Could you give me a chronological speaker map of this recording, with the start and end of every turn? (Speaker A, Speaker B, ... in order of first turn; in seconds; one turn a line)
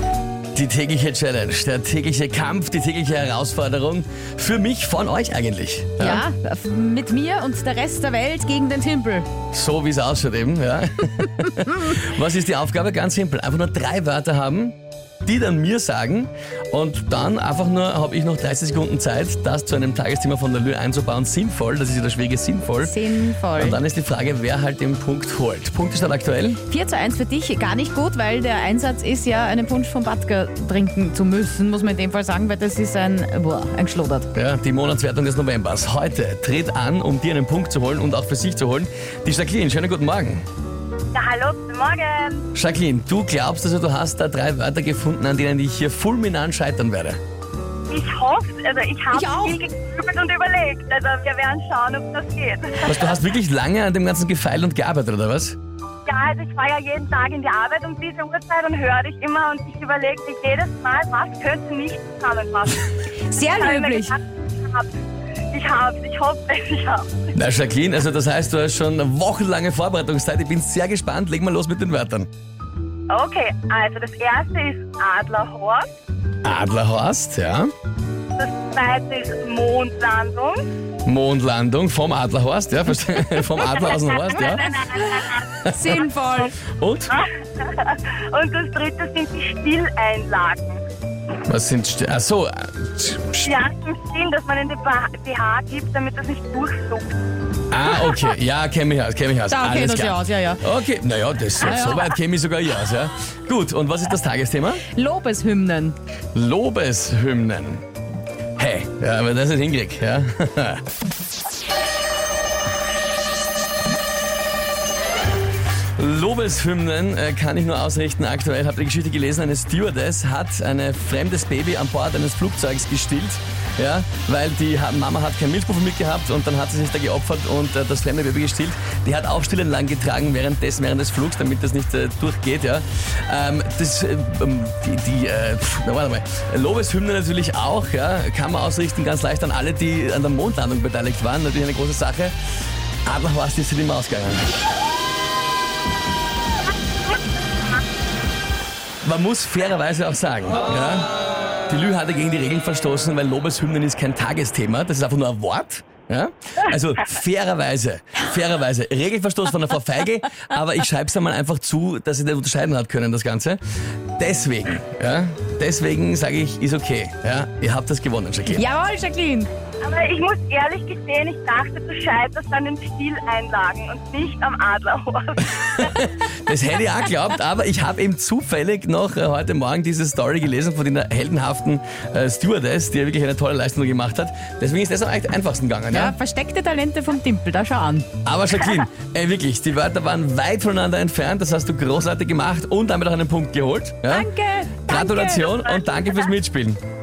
Speaker A: 0.5-6.2
Speaker B: 6.0-9.3
Speaker A: 9.5-22.9
Speaker B: 22.8-23.8
Speaker A: 23.6-26.6
Speaker B: 26.7-34.3
Speaker A: 34.3-40.4
Speaker C: 41.1-42.5
Speaker A: 42.5-47.2
Speaker C: 47.9-53.2
Speaker B: 49.1-49.7
Speaker A: 52.8-55.6
Speaker C: 56.1-64.9
Speaker B: 63.3-64.2
Speaker C: 65.5-67.3
Speaker A: 67.3-72.3
Speaker C: 73.1-75.9
Speaker A: 76.4-77.7
Speaker C: 78.4-80.6
Speaker A: 81.0-84.7
Speaker C: 83.3-86.5
Speaker B: 84.6-86.5
Speaker A: 85.7-86.0
Speaker A: 86.6-87.2
Speaker C: 87.1-90.8
Speaker A: 91.5-93.5
Speaker C: 93.4-97.1
Speaker A: 97.7-104.8
Speaker B: 99.5-100.6
Speaker B: 101.6-102.2
Speaker B: 104.8-106.0
Speaker A: 106.3-107.8
Speaker A: 108.6-110.8
Speaker A: 116.0-142.3
Speaker A: 143.1-144.5
Speaker A: 149.0-151.1
Speaker A: 151.7-163.6
Speaker A: 164.2-168.6
Speaker B: 168.5-169.5
Speaker C: 169.8-175.9
Speaker A: 175.6-186.2
Speaker B: 185.9-188.1
Speaker A: 188.2-194.3
Speaker B: 194.1-195.5
Speaker A: 194.9-196.8
Speaker C: 195.4-196.3